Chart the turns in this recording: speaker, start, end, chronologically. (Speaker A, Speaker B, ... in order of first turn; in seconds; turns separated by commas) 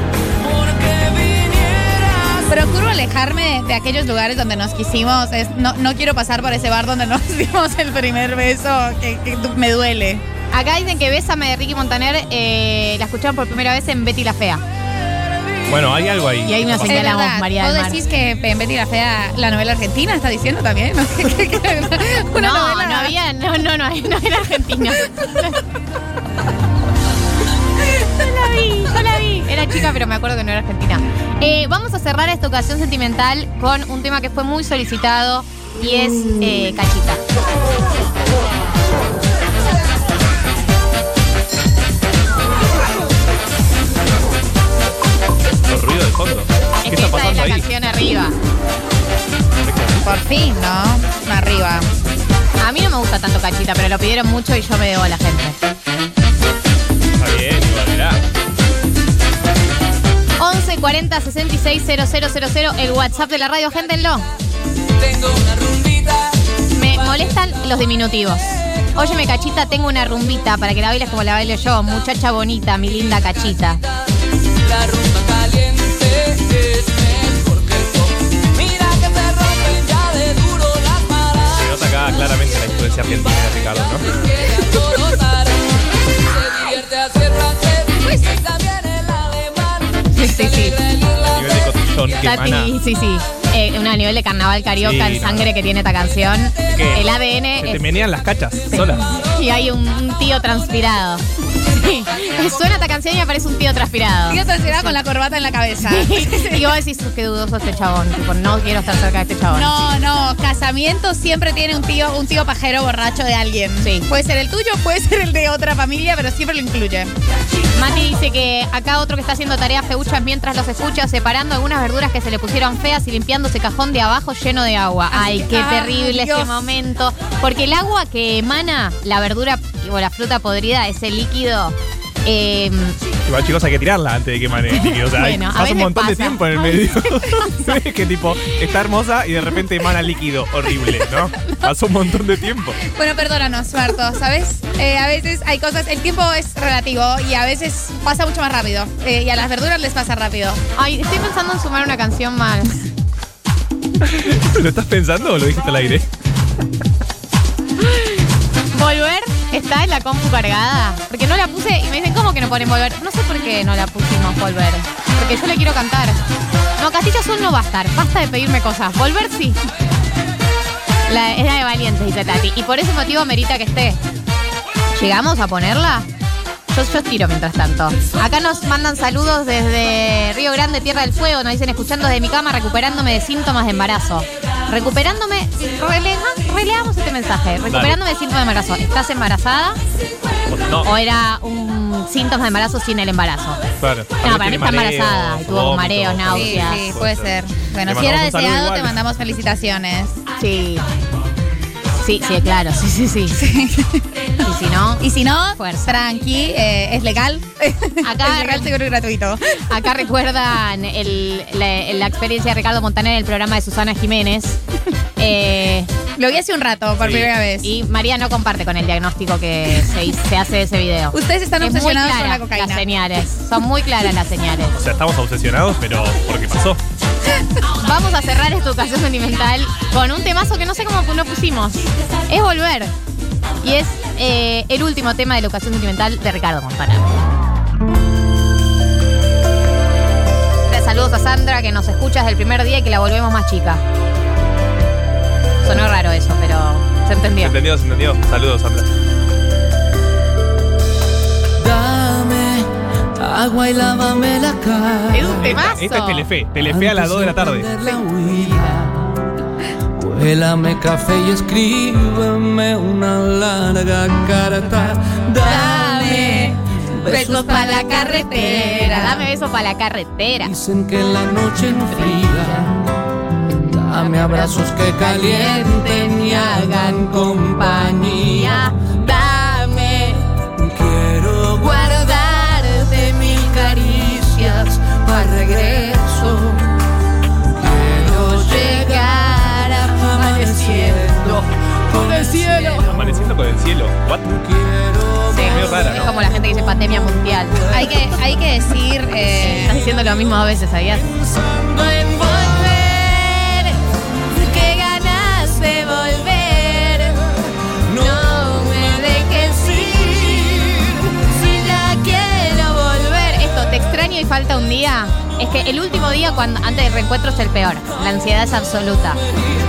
Speaker A: 0.4-2.7, Speaker B: 2.5-10.2, Speaker C: 10.5-14.6, Speaker D: 15.7-17.2, Speaker C: 16.4-18.0, Speaker B: 16.8-23.1, Speaker C: 22.4-25.6, Speaker C: 27.9-37.2, Speaker D: 45.7-47.7, Speaker C: 46.8-48.4, Speaker D: 49.6-50.1, Speaker B: 50.0-51.9, Speaker C: 52.6-55.6, Speaker D: 57.2-58.2, Speaker C: 60.4-64.3, Speaker A: 65.0-66.4, Speaker C: 66.8-73.8, Speaker A: 74.6-81.7, Speaker D: 81.5-84.1, Speaker A: 83.4-91.4, Speaker C: 90.1-90.8, Speaker D: 91.2-92.7, Speaker C: 92.1-97.8, Speaker D: 94.8-95.5, Speaker D: 96.8-97.1, Speaker D: 97.6-99.1, Speaker C: 98.7-104.4, Speaker B: 104.3-106.7, Speaker C: 105.8-109.8, Speaker B: 109.5-117.1, Speaker C: 113.8-114.1, Speaker C: 117.8-133.0, Speaker B: 125.1-126.5, Speaker D: 133.3-142.8, Speaker C: 134.7-137.8, Speaker B: 142.8-150.6, Speaker C: 150.8-152.9, Speaker D: 154.0-156.1, Speaker C: 158.7-166.2, Speaker C: 166.8-169.6, Speaker C: 171.1-174.0, Speaker C: 174.9-176.1, Speaker C: 176.7-189.8, Speaker D: 187.7-188.0, Speaker D: 190.5-190.9, Speaker C: 190.8-193.6, Speaker D: 193.8-197.3, Speaker C: 194.2-197.0, Speaker B: 196.3-200.2, Speaker D: 197.8-198.9, Speaker C: 200.4-200.9, Speaker C: 202.0-203.4, Speaker B: 203.4-204.0, Speaker C: 204.4-205.9, Speaker B: 205.0-209.5, Speaker C: 208.0-208.7, Speaker C: 209.7-214.6, Speaker C: 215.2-215.9, Speaker B: 216.2-217.7, Speaker D: 217.0-217.3, Speaker C: 217.6-224.8, Speaker B: 221.1-222.8, Speaker D: 224.8-226.8, Speaker C: 227.8-232.9, Speaker C: 233.6-237.3, Speaker C: 240.7-243.8, Speaker C: 245.6-247.6, Speaker D: 247.4-248.9, Speaker A: 251.6-255.7, Speaker C: 255.1-256.3, Speaker D: 255.7-257.7, Speaker A: 256.7-259.2, Speaker A: 260.0-268.8, Speaker C: 265.4-270.5, Speaker B: 267.3-269.2, Speaker A: 270.4-272.8, Speaker C: 271.8-272.7, Speaker A: 273.7-278.7, Speaker C: 273.9-280.2, Speaker A: 280.6-286.7, Speaker C: 281.6-284.1, Speaker C: 285.3-286.0, Speaker A: 287.5-293.3, Speaker C: 288.4-291.4, Speaker C: 292.0-292.9, Speaker D: 292.9-294.4, Speaker A: 294.3-296.0, Speaker C: 295.3-297.8, Speaker D: 295.4-296.1, Speaker B: 297.7-299.8, Speaker C: 299.4-301.2, Speaker A: 301.4-302.5, Speaker C: 301.8-303.8, Speaker C: 304.3-307.2, Speaker A: 307.9-311.0, Speaker C: 307.9-319.2